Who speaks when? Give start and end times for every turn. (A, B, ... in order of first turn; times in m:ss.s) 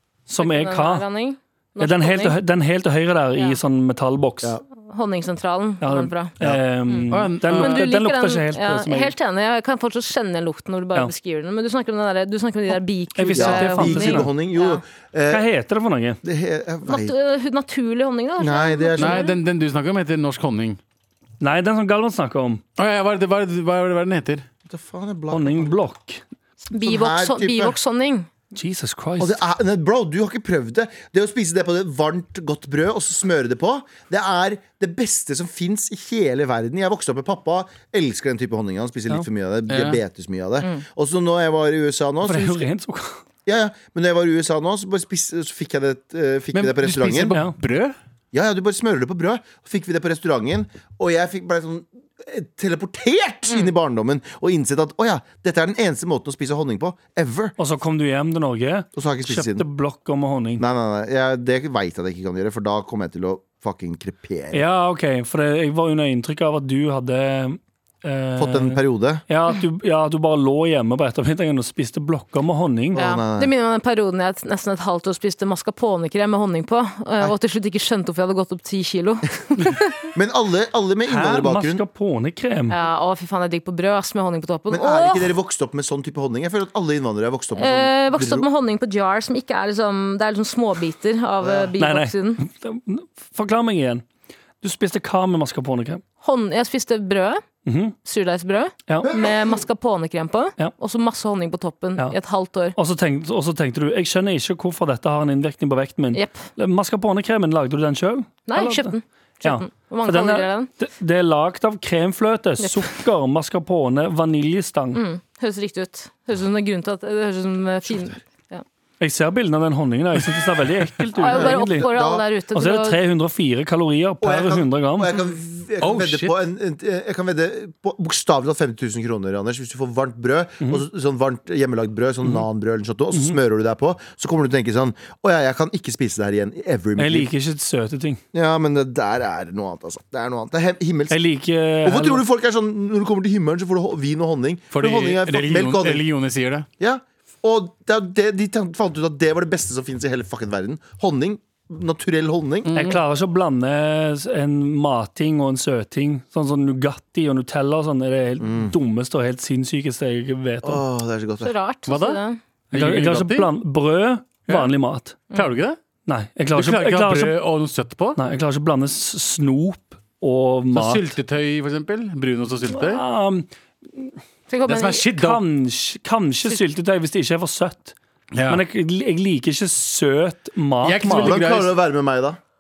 0:00.3-0:01.0 A
0:00.4-0:02.4 B
0:01.8-0:04.6 A
0:04.9-0:06.3 B
0:05.8-0:09.1 A
0:06.9-0:14.8 B
0:07.1-0:07.8 C
0:13.2-0:14.3 A
0:13.4-0:15.4 D
0:15.3-0:16.2 A
0:16.2-0:17.1 D
0:16.8-0:19.4 B
0:18.4-0:19.3 D
0:19.0-0:20.8 C
0:21.4-0:22.6 A
0:22.8-0:24.4 C
0:24.6-0:25.7 D
0:25.3-0:26.2 A
0:26.7-0:28.3 B
0:26.7-0:27.8 D
0:28.5-0:29.4 A
0:29.2-0:42.7 D
0:39.7-0:40.0 C
0:42.2-0:43.2 A
0:43.4-0:47.4 D
0:46.5-0:48.0 C
0:48.3-0:57.5 D
0:57.6-1:00.6 A
0:58.9-0:59.6 D
1:00.6-1:04.6 D
1:04.5-1:13.0 A
1:08.4-1:09.2 D
1:12.9-1:13.5 D
1:13.0-1:20.0 B
1:20.1-1:21.8 D
1:21.1-1:22.8 A
1:22.7-1:25.3 B
1:24.7-1:28.5 D
1:27.5-1:32.4 B
1:31.4-1:31.7 D
1:31.8-1:34.0 A
1:34.6-1:36.0 A
1:36.2-1:37.4 B
1:37.6-1:37.9 A
1:38.0-1:42.8 B
1:39.0-1:39.4 D
1:42.7-1:48.9 A
1:46.1-1:46.4 B
1:48.5-1:50.7 B
1:49.4-1:55.0 A
1:52.6-1:52.8 B
1:54.9-1:58.6 B
1:59.0-2:01.9 A
2:01.2-2:03.0 B
2:01.3-2:02.2 D
2:02.5-2:05.1 A
2:04.2-2:17.3 D
2:05.8-2:06.3 C
2:17.0-2:18.2 A
2:18.3-2:21.2 D
2:21.1-2:22.2 A
2:21.8-2:26.0 D
2:24.7-2:26.7 C
2:26.8-2:32.7 D
2:32.6-2:33.0 C
2:32.7-2:40.8 A
2:38.4-2:38.7 D
2:40.6-2:41.5 D
2:41.4-2:42.4 B
2:41.9-2:42.2 C
2:42.7-2:45.2 A
2:42.7-2:43.5 C
2:44.5-2:44.7 C
2:45.3-2:45.8 C
2:46.0-2:47.3 A
2:46.5-2:48.2 C
2:48.2-2:51.1 A
2:50.7-2:53.0 C
2:52.7-2:54.2 A
2:54.5-2:55.0 B
2:54.7-2:55.4 C
2:55.2-2:57.9 A
2:58.3-2:58.6 C
2:58.5-3:01.4 A
3:00.8-3:01.8 C
3:01.1-3:02.4 D